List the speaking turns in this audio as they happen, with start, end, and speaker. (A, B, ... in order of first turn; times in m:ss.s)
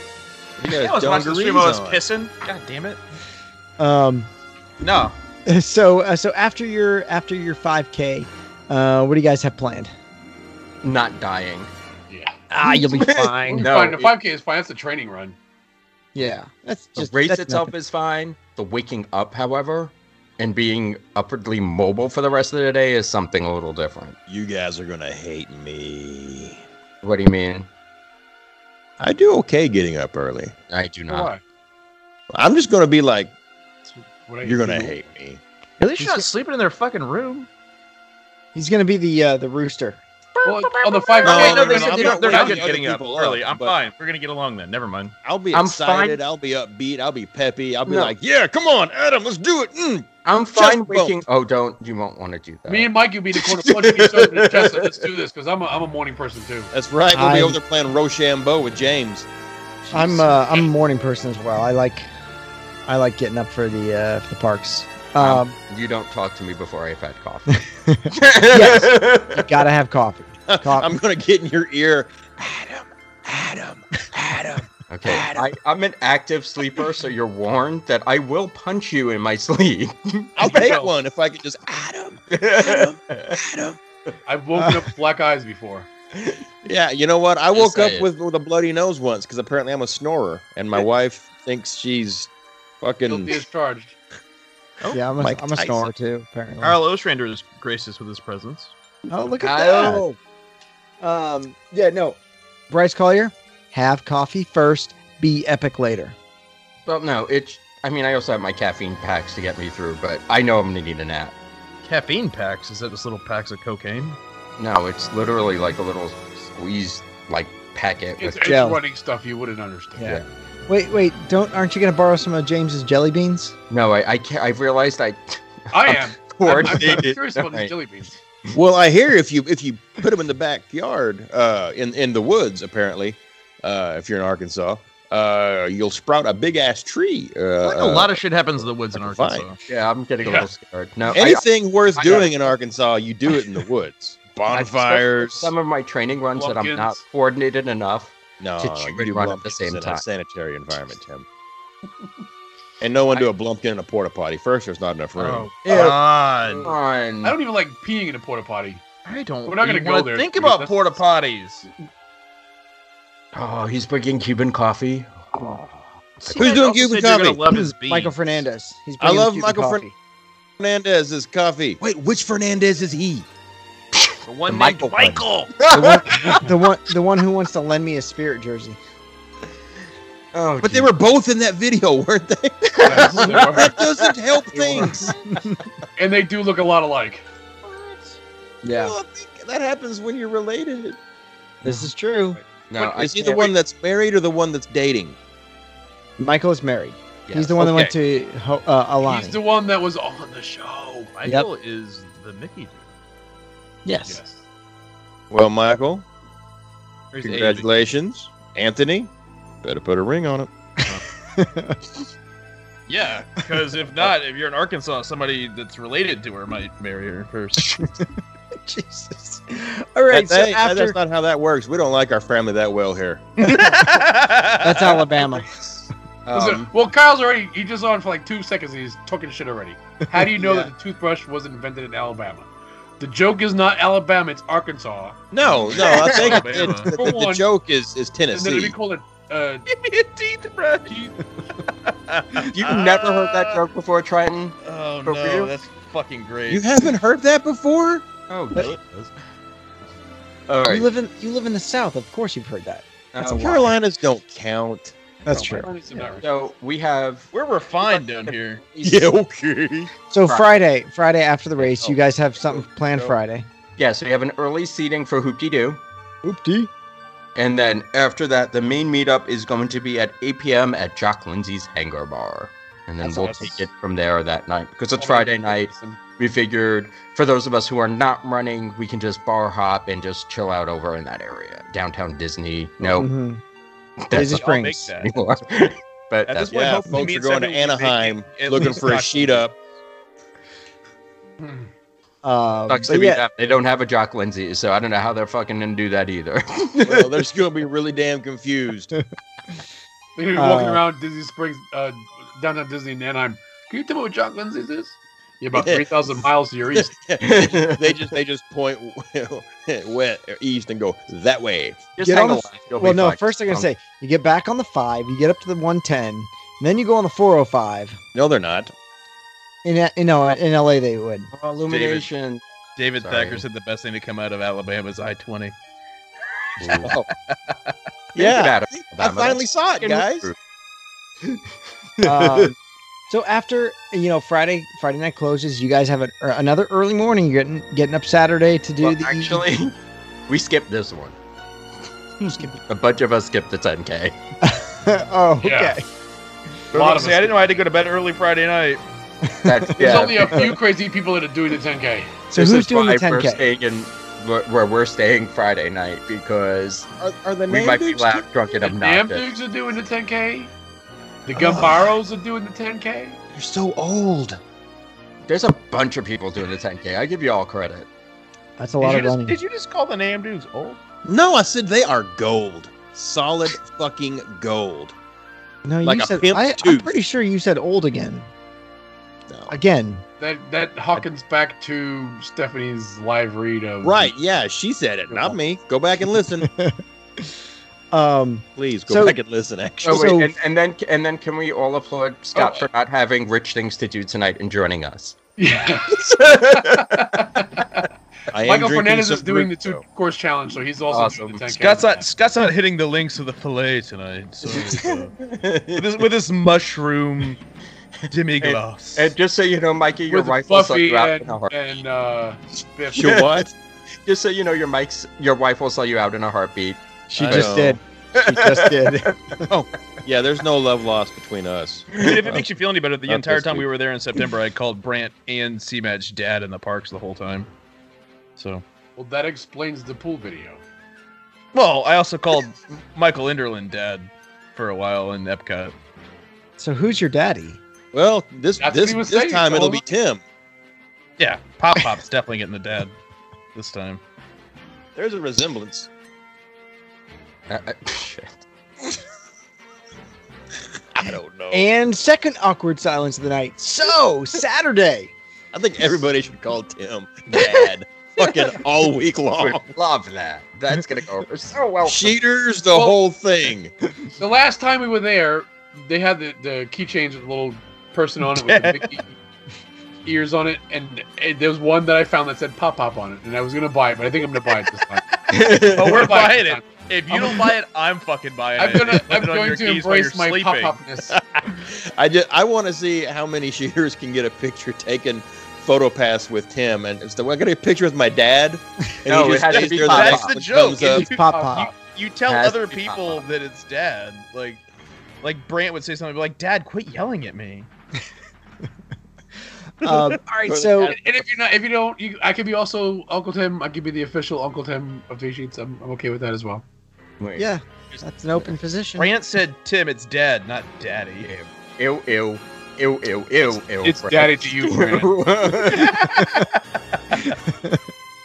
0:00.6-0:02.0 A
0:00.6-0:03.0 B
0:03.8-0:04.3 C
0:04.8-0:05.2 B
0:05.5-0:09.9 C
0:10.8-0:11.7 D
0:12.1-0:12.4 E
0:12.5-0:13.7 C
0:12.6-0:14.1 D
0:13.5-0:15.4 E
0:16.2-0:17.7 C
0:17.0-0:24.2 D
0:24.3-0:26.6 A
0:27.0-0:27.7 D
0:29.0-0:30.6 A
0:30.7-0:31.3 D
0:31.1-0:31.4 E
0:32.3-0:33.3 A
0:33.9-0:35.0 E
0:34.4-0:35.4 A
0:35.8-0:37.5 B
0:36.0-0:36.3 C
0:38.6-0:40.0 C
0:40.4-0:45.2 B
0:40.4-0:42.7 E
0:41.2-0:43.8 A
0:45.2-0:51.2 A
0:45.5-0:46.2 D
0:47.9-0:48.1 C
0:50.2-0:52.9 D
0:52.7-0:56.7 E
0:53.8-0:54.9 D
0:56.7-0:59.3 A
0:57.1-0:57.6 C
0:59.9-1:02.1 C
1:02.9-1:05.6 C
1:05.2-1:09.6 D
1:07.6-1:11.0 C
1:10.5-1:15.5 A
1:14.9-1:20.7 D
1:20.4-1:23.8 A
1:20.4-1:20.9 E
1:22.3-1:23.4 D
1:24.3-1:25.9 E
1:26.6-1:32.3 A
1:27.5-1:28.1 D
1:32.8-1:33.4 A
1:33.1-1:34.0 E
1:34.9-1:36.8 C
1:35.2-1:35.9 A
1:36.6-1:38.7 B
1:39.1-1:40.0 C
1:39.4-1:40.2 D
1:41.0-1:42.2 C
1:42.7-1:46.2 C
1:46.8-1:51.4 D
1:51.8-1:54.2 B
1:54.6-1:58.6 D
1:58.2-2:00.2 E
1:58.5-1:58.8 C
2:00.0-2:03.6 C
2:03.7-2:07.7 D
2:05.7-2:08.2 E
2:08.5-2:18.2 A
2:17.6-2:19.6 B
2:18.9-2:19.5 A
2:19.7-2:22.3 D
2:21.1-2:25.5 A
2:24.5-2:30.0 D
2:26.4-2:27.0 E
2:28.4-2:31.3 A
2:32.8-2:35.9 A
2:35.2-2:36.7 B
2:35.7-2:36.0 D
2:36.6-2:37.4 D
2:37.2-2:38.8 E
2:39.0-2:41.7 B
2:39.5-2:41.0 E
2:43.3-2:45.7 D
2:46.2-2:46.5 D
2:46.3-2:48.4 B
2:46.3-2:47.5 A
2:47.5-2:49.9 C
2:49.0-2:49.8 A
2:50.6-2:53.3 A
2:54.0-2:56.4 D
2:54.3-2:55.6 B
2:55.7-2:58.8 C
3:00.3-3:00.9 D
3:00.6-3:05.1 A
3:02.7-3:04.1 D
3:02.8-3:03.8 E
3:04.5-3:05.1 E
3:05.0-3:05.6 C
3:06.0-3:07.2 E
3:07.6-3:08.1 B
3:08.6-3:09.0 C
3:08.6-3:11.0 A
3:11.6-3:12.4 C
3:12.7-3:13.5 D
3:12.8-3:15.2 A
3:16.2-3:19.4 C
3:17.3-3:17.6 D
3:19.0-3:21.1 E
3:21.2-3:22.8 B
3:23.8-3:24.2 C
3:24.1-3:24.4 E
3:25.3-3:26.1 A
3:27.1-3:27.7 B
3:27.2-3:29.1 A
3:29.6-3:30.5 A
3:31.4-3:31.8 C
3:32.9-3:37.9 B
3:38.6-3:41.0 C
3:40.1-3:43.3 A
3:43.4-3:45.0 B
3:43.5-3:44.0 C
3:44.6-3:45.5 C
3:45.4-3:45.7 D
3:46.3-3:46.7 D
3:46.3-3:52.5 E
3:50.2-3:50.7 C
3:53.0-3:55.2 E
3:55.3-3:58.8 A
3:55.4-3:56.9 B
3:56.9-3:57.5 E
3:58.3-3:59.6 E
3:59.7-4:00.9 B
4:00.9-4:01.1 E
4:01.7-4:03.6 B
4:02.5-4:05.5 D
4:04.6-4:06.8 B
4:06.5-4:08.1 A
4:08.3-4:09.1 D
4:10.5-4:10.9 D
4:10.7-4:12.8 C
4:13.1-4:13.7 D
4:13.2-4:15.0 A
4:15.2-4:15.7 C
4:15.3-4:16.3 E
4:16.2-4:17.3 D
4:17.3-4:18.6 B
4:17.9-4:19.0 D
4:18.8-4:19.9 A
4:20.1-4:23.5 C
4:20.2-4:20.5 D
4:21.7-4:23.2 A
4:23.8-4:25.8 D
4:26.2-4:26.7 C
4:27.4-4:43.1 D
4:35.0-4:36.0 E
4:43.0-4:43.4 C
4:44.0-4:44.4 D
4:44.1-4:44.9 C
4:44.1-4:45.2 B
4:45.0-4:46.6 D
4:46.3-4:49.6 B
4:46.5-4:49.6 A
4:51.4-4:51.7 E
4:52.2-4:53.2 C
4:52.7-4:57.2 D
4:56.8-4:58.9 A
5:00.2-5:06.9 E
5:00.4-5:00.8 C
5:05.5-5:06.1 A
5:06.7-5:12.0 A
5:07.2-5:08.0 D
5:12.0-5:13.7 D
5:12.0-5:18.0 C
5:18.1-5:18.7 A
5:19.6-5:21.3 C
5:21.3-5:22.4 D
5:21.7-5:22.1 B
5:22.8-5:25.6 B
5:23.0-5:23.4 D
5:26.6-5:26.9 D
5:26.6-5:27.7 B
5:26.8-5:27.1 A
5:28.2-5:30.3 A
5:28.2-5:30.4 D
5:32.0-5:32.5 D
5:32.0-5:32.6 C
5:33.1-5:39.4 C
5:38.8-5:39.7 D
5:40.3-5:41.2 D
5:42.2-5:44.2 D
5:44.4-5:45.8 C
5:45.4-5:45.8 E
5:46.7-5:47.5 E
5:46.7-5:48.8 B
5:49.4-5:50.4 C
5:49.4-5:50.5 D
5:49.8-5:52.1 E
5:52.3-5:53.4 C
5:52.3-5:56.9 D
5:57.0-5:58.2 A
5:57.5-5:59.4 D
5:58.6-6:00.5 E
6:01.3-6:03.2 E
6:01.4-6:01.9 A
6:03.3-6:04.4 A
6:05.3-6:07.9 D
6:08.6-6:09.4 C
6:08.8-6:10.8 B
6:11.1-6:15.0 A
6:15.6-6:18.3 C
6:15.8-6:17.0 A
6:19.3-6:19.5 A
6:19.5-6:20.0 C
6:20.2-6:24.1 E
6:23.8-6:26.5 A
6:26.4-6:26.8 C
6:27.9-6:29.2 C
6:28.6-6:30.1 A
6:29.8-6:30.3 C
6:29.8-6:35.2 D
6:32.4-6:32.7 E
6:35.4-6:37.9 E
6:36.0-6:36.9 D
6:38.3-6:39.8 A
6:38.4-6:42.1 E
6:40.9-6:41.4 D
6:41.5-6:45.1 B
6:45.2-6:46.0 D
6:45.8-6:47.4 B
6:48.1-6:49.1 B
6:48.4-6:51.6 D
6:50.1-6:53.2 E
6:52.9-6:53.5 A
6:53.0-6:53.4 D
6:54.1-6:59.0 D
6:57.1-6:59.5 C
6:57.2-6:57.8 A
6:59.5-7:02.4 A
7:02.0-7:07.5 B
7:03.1-7:03.7 A
7:08.4-7:08.6 B
7:09.0-7:10.6 E
7:11.5-7:15.7 B
7:16.6-7:17.6 C
7:17.9-7:20.2 A
7:18.6-7:19.8 E
7:21.2-7:23.0 B
7:23.6-7:24.0 B
7:25.0-7:25.9 A
7:27.5-7:28.4 D
7:30.9-7:31.7 A
7:31.5-7:35.1 C
7:35.5-7:39.6 A
7:37.3-7:37.7 D
7:39.4-7:42.2 D
7:41.8-7:43.7 A
7:42.7-7:43.0 E
7:44.2-7:49.2 E
7:48.3-7:48.9 B
7:50.0-7:55.0 E
7:55.3-7:56.1 D
7:55.3-8:00.8 B
7:55.8-7:57.5 E
7:58.6-8:01.2 E
8:01.1-8:11.1 A
8:09.1-8:10.3 D
8:09.4-8:14.6 B
8:10.9-8:11.7 E
8:11.0-8:11.7 C
8:12.3-8:13.2 D
8:15.2-8:17.7 B
8:19.8-8:21.0 C
8:20.5-8:21.0 A
8:20.8-8:26.6 E
8:27.2-8:28.6 D
8:27.4-8:29.1 C
8:29.0-8:31.3 B
8:31.2-8:36.2 D
8:33.8-8:35.1 E
8:35.7-8:36.6 B